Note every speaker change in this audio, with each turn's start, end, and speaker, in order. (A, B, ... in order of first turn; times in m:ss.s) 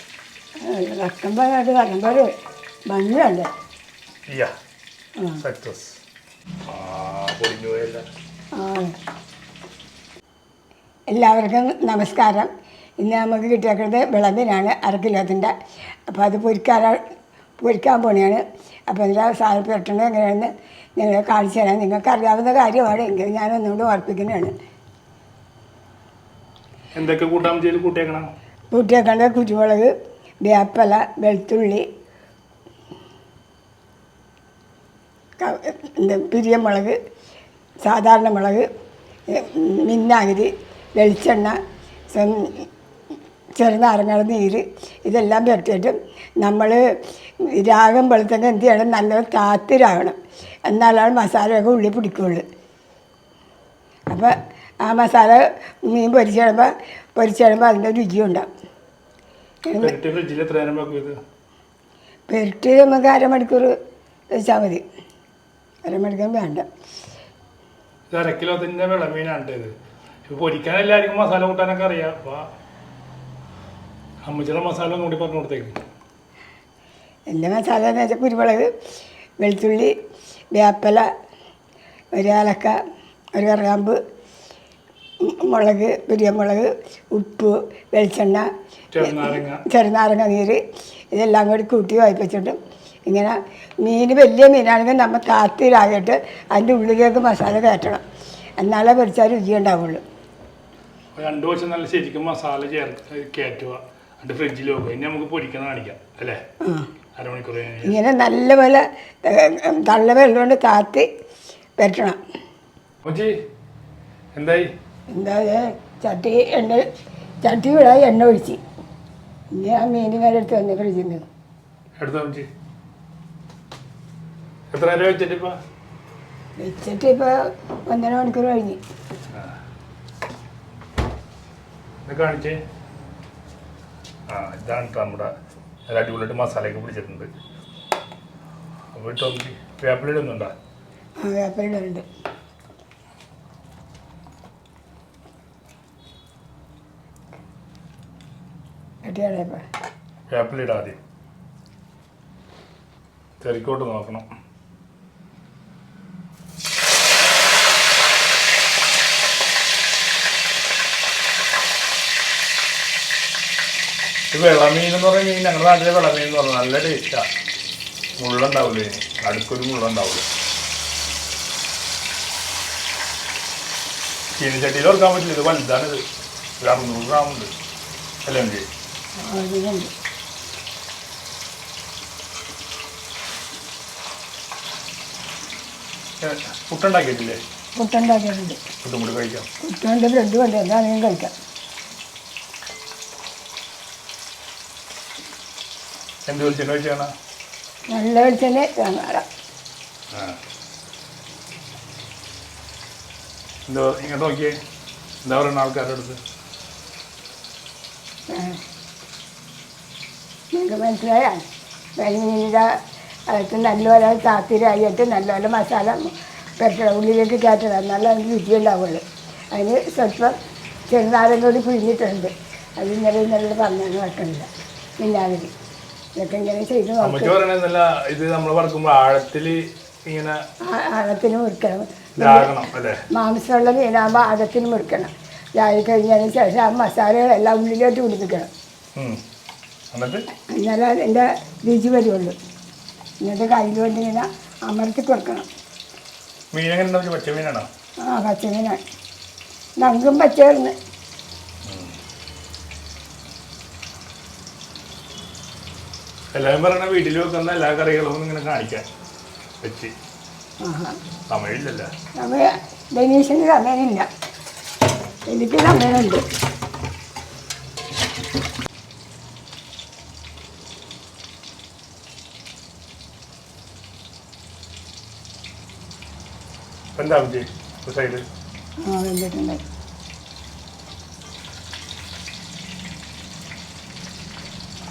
0:00.6-0:02.3 A
0:02.9-0:03.5 A
0:05.4-0:06.0 B
0:06.7-0:08.0 B
0:08.6-0:09.0 A
0:11.1-0:15.5 A
0:16.1-0:17.0 A
0:17.6-0:24.5 A
0:27.0-0:28.3 B
0:28.7-0:31.8 A
0:35.4-0:37.0 A
0:37.8-0:38.7 A
0:39.3-0:41.6 A
0:42.1-0:42.7 A
0:43.6-0:46.8 A
0:47.4-0:52.4 A
0:54.8-0:58.5 A
0:59.7-1:00.0 A
0:59.8-1:01.2 B
1:02.3-1:03.7 A
1:04.3-1:04.8 A
1:05.8-1:06.7 A
1:08.1-1:09.7 B
1:10.3-1:12.5 B
1:14.2-1:15.8 B
1:17.3-1:18.7 A
1:19.4-1:20.0 A
1:20.5-1:21.1 A
1:22.2-1:22.8 A
1:23.4-1:24.0 A
1:25.2-1:28.5 A
1:28.9-1:29.6 B
1:29.0-1:30.6 A
1:31.1-1:38.0 A
1:38.6-1:40.0 A
1:41.2-1:46.4 B
1:46.6-1:46.9 A
1:47.2-1:48.0 B
1:47.8-1:51.1 A
1:51.8-1:52.2 A
1:53.0-1:53.4 B
1:54.4-1:54.7 B
1:55.1-1:56.8 A
1:57.4-1:58.6 A
1:59.5-2:01.2 A
2:02.0-2:02.5 B
2:04.7-2:05.6 B
2:06.6-2:07.4 A
2:07.9-2:08.8 A
2:12.1-2:12.6 B
2:14.3-2:15.3 B
2:15.9-2:17.3 B
2:18.9-2:20.5 B
2:21.2-2:22.0 A
2:29.0-2:29.6 A
2:30.3-2:31.0 B
2:33.4-2:34.3 B
2:44.3-2:47.3 B
2:48.2-2:50.3 B
2:54.4-2:56.0 B
2:56.6-2:57.5 B
2:58.2-2:58.7 B
2:59.2-2:59.9 A
3:06.2-3:07.4 B
3:07.8-3:08.6 A
3:08.8-3:09.5 B
3:09.6-3:11.3 A
3:16.3-3:17.1 B
3:17.9-3:19.3 A
3:20.1-3:20.4 B
3:23.7-3:24.6 B
3:25.2-3:26.2 B
3:28.3-3:28.6 A
3:30.5-3:31.4 A
3:32.0-3:32.7 A
3:33.3-3:40.3 A
3:40.9-3:45.5 A
3:46.2-3:47.4 A
3:47.0-3:50.4 B
3:50.6-3:52.5 A
3:52.2-3:53.0 B
3:53.1-3:58.5 A
3:59.0-3:59.2 B
3:59.9-4:00.2 B
4:00.5-4:02.4 A
4:03.2-4:05.5 A
4:06.5-4:07.7 B
4:08.0-4:08.8 A
4:09.8-4:10.8 A
4:11.7-4:12.0 B
4:16.3-4:18.9 B
4:19.6-4:19.9 B
4:20.6-4:21.0 A
4:21.3-4:21.9 B
4:22.2-4:24.1 A
4:25.3-4:26.2 A
4:37.0-4:38.2 B
4:38.8-4:39.6 A